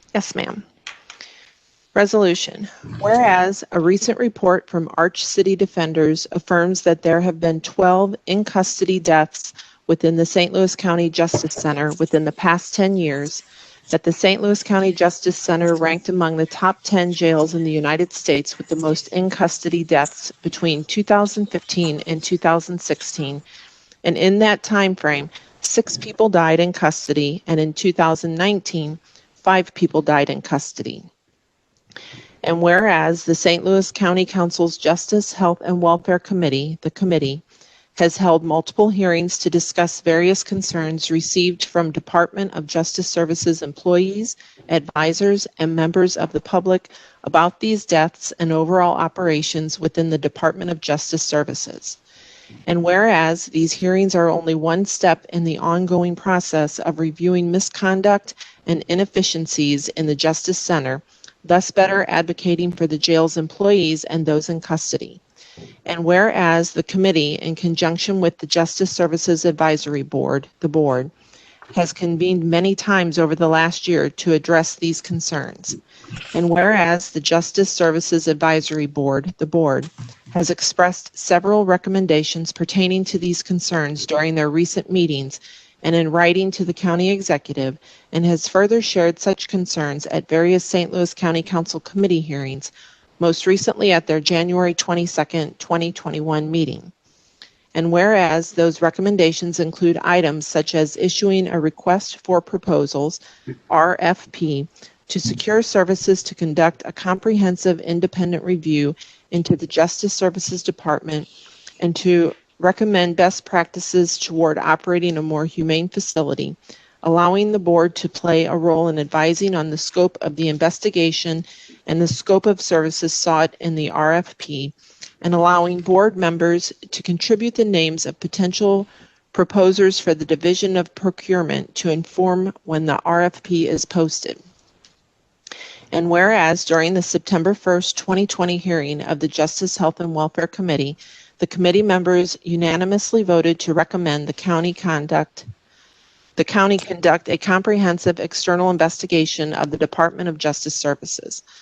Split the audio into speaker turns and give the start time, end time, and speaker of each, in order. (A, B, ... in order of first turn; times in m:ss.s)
0:00.1-0:00.6 A
0:01.9-0:23.4 A
0:24.0-0:31.1 A
0:32.4-0:37.4 A
0:38.0-0:52.0 A
0:52.7-1:05.2 A
1:05.8-1:11.1 A
1:11.7-1:15.8 A
1:16.3-1:36.9 A
1:37.7-1:51.3 A
1:51.8-2:14.4 A
2:15.9-2:25.5 A
2:26.4-2:31.4 A